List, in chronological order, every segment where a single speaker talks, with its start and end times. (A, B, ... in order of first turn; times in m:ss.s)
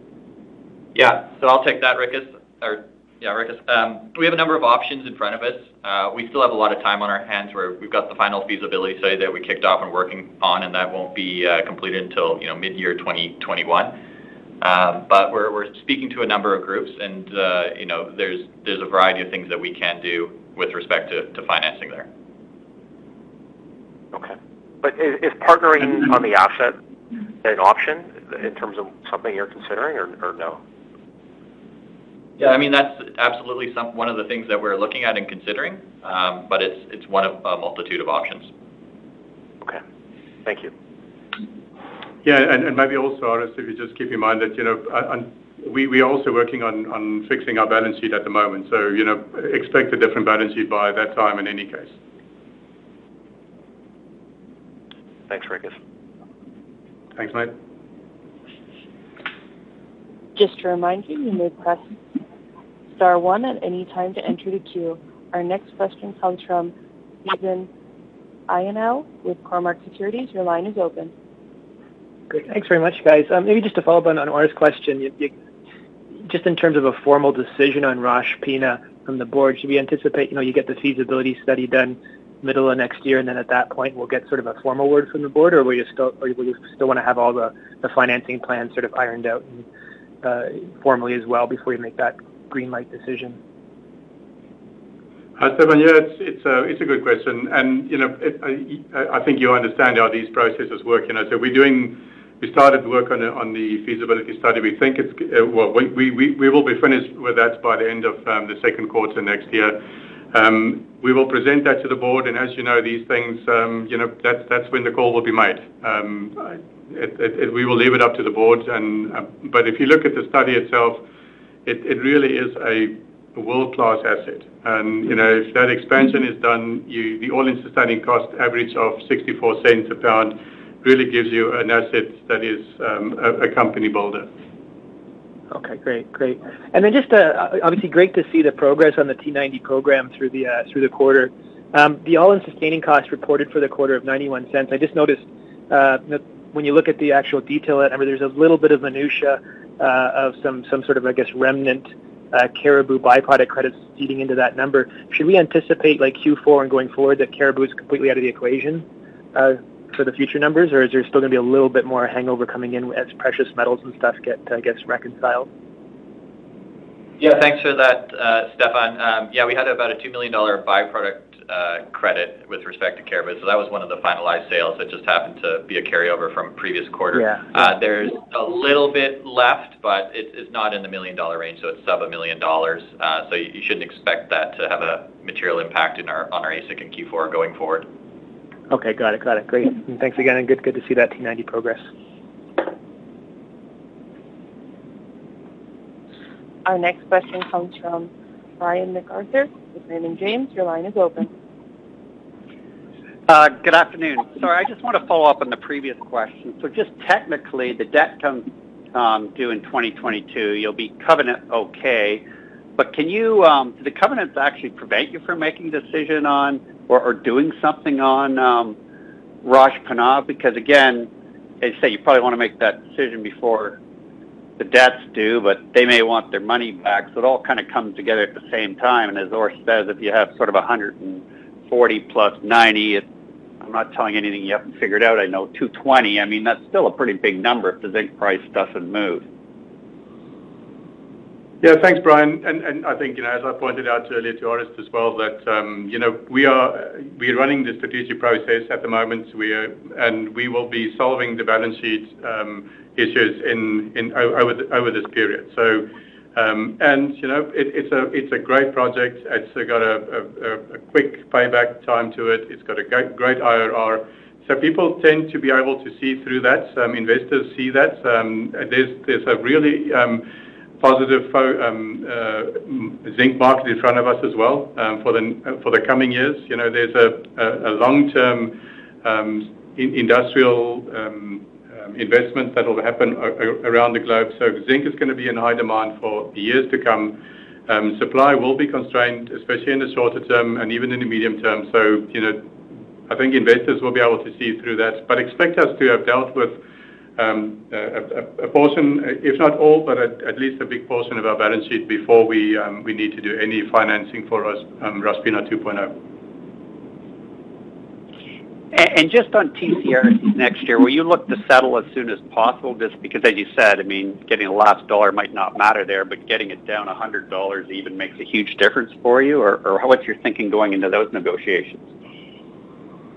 0:01.0-0:14.0 A
0:14.6-0:22.1 A
0:24.1-0:26.8 B
0:27.4-0:30.6 B
0:32.4-0:38.5 A
0:40.4-0:40.7 B
0:42.2-0:51.9 C
0:55.3-0:55.8 B
0:57.2-0:57.5 C
1:00.4-1:01.9 D
1:02.9-1:07.7 D
1:08.5-1:11.1 D
1:12.3-1:15.3 E
1:16.1-1:29.7 E
1:30.2-1:33.4 E
1:35.4-2:01.0 C
2:01.7-2:14.3 C
2:15.5-2:45.5 E
2:47.2-3:07.9 A
2:57.1-2:57.5 E
3:08.7-3:11.8 E
3:16.6-3:21.3 D
3:23.3-3:32.2 F
3:32.8-3:38.8 F
3:39.4-3:41.1 F
3:41.6-3:43.8 F
3:44.6-3:53.0 F
3:53.6-3:59.2 F
4:01.6-4:30.3 C
4:30.8-4:52.5 C
4:53.1-4:56.6 C
4:57.2-5:05.9 C
5:08.7-5:21.9 F